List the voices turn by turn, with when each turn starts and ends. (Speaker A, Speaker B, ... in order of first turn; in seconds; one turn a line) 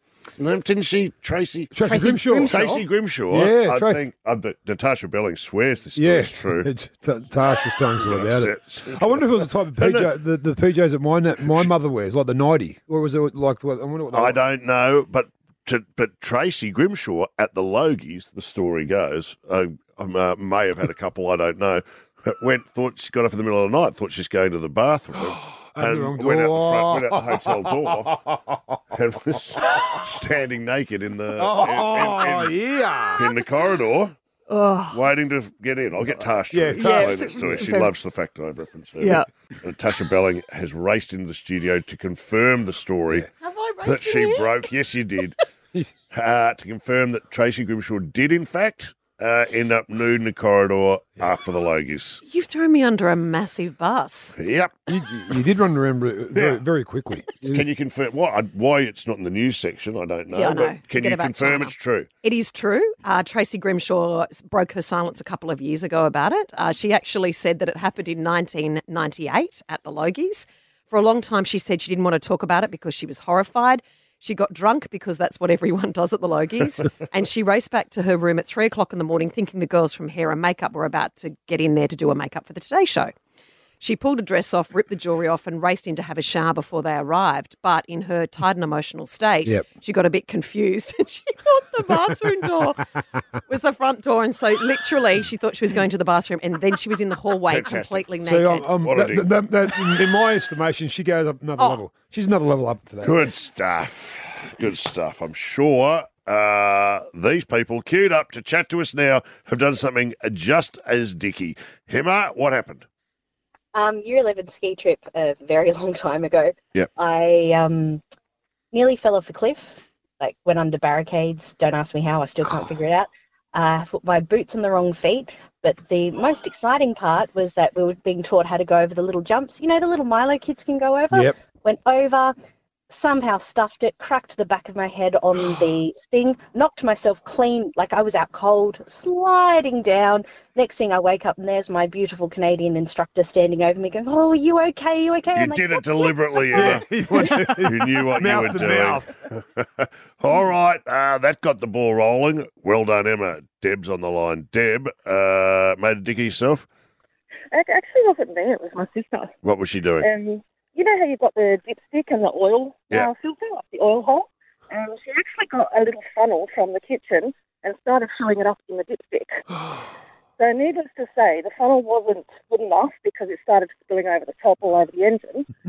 Speaker A: 0.4-1.8
Speaker B: 1.7-4.0
Speaker C: 1.8-2.8
Speaker A: 2.4-6.7
Speaker B: 6.0-14.4
Speaker A: 8.0-10.1
Speaker A: 14.1-28.2
Speaker B: 25.7-28.8
Speaker A: 28.9-32.5
Speaker B: 31.4-33.3
Speaker A: 33.2-34.1
Speaker C: 34.5-35.0
Speaker A: 34.9-43.3
Speaker B: 36.5-37.7
Speaker C: 36.8-37.9
Speaker C: 39.0-39.2
Speaker D: 43.4-44.5
Speaker A: 43.8-45.4
Speaker A: 46.1-52.2
Speaker D: 52.2-54.4
Speaker A: 54.4-54.8
Speaker B: 54.9-57.7
Speaker A: 56.4-56.6
Speaker A: 57.5-62.1
Speaker D: 60.3-83.1
Speaker D: 83.8-92.8
Speaker D: 93.5-98.7
Speaker A: 97.5-98.1
Speaker B: 98.2-103.3
Speaker A: 98.8-99.3
Speaker A: 103.0-112.8
Speaker E: 113.7-118.0
Speaker E: 118.7-132.3
Speaker E: 132.9-146.1
Speaker A: 145.3-146.9
Speaker B: 146.5-149.1
Speaker A: 147.6-156.7
Speaker F: 157.5-159.3
Speaker A: 159.4-160.1
Speaker F: 160.0-169.4
Speaker F: 170.4-175.5